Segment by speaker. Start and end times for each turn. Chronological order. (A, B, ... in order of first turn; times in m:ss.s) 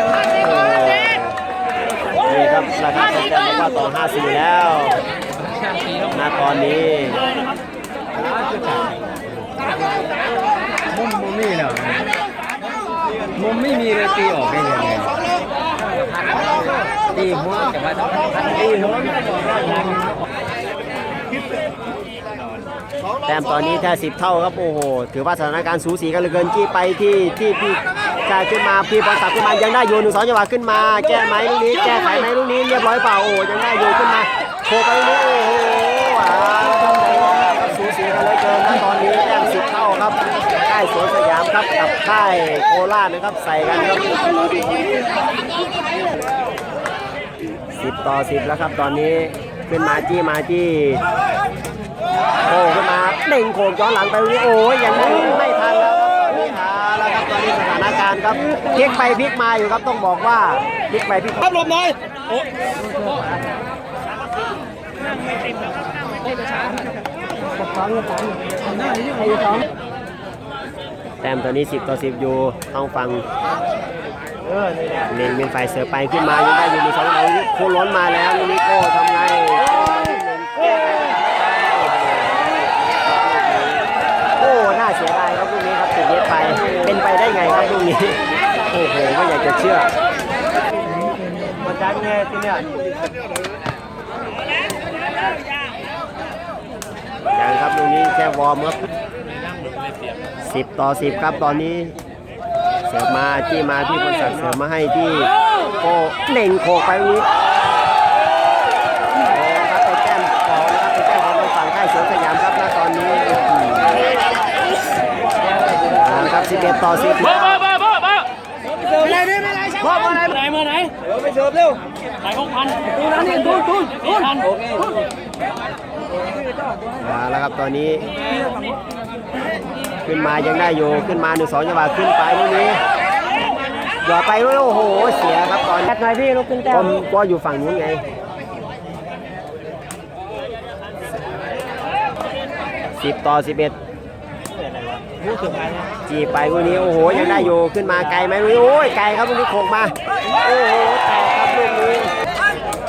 0:00.4-0:01.4 A
0:02.2-0:05.0 A
0:06.1-0:07.2 A
0:08.4-0:08.7 B
0:10.9-0:12.0 B
0:13.4-0:15.1 B
0:17.1-0:19.9 B
0:23.2-0:44.3 A
0:47.8-0:51.0 A
0:52.4-1:01.7 A
1:08.9-1:09.6 B
1:11.2-1:13.2 A
1:14.9-1:23.8 A
1:24.4-1:29.9 A
1:31.6-1:32.7 A
1:37.3-1:38.8 A
1:40.4-1:41.9 A
1:42.9-1:47.3 A
1:49.3-1:54.0 A
1:56.0-1:57.8 A
1:58.9-2:01.8 B
2:02.6-2:04.9 B
2:07.0-2:08.1 A
2:10.0-2:12.8 A
2:14.0-2:18.0 A
2:16.2-2:16.6 B
2:23.0-2:23.7 A
2:26.0-2:32.1 A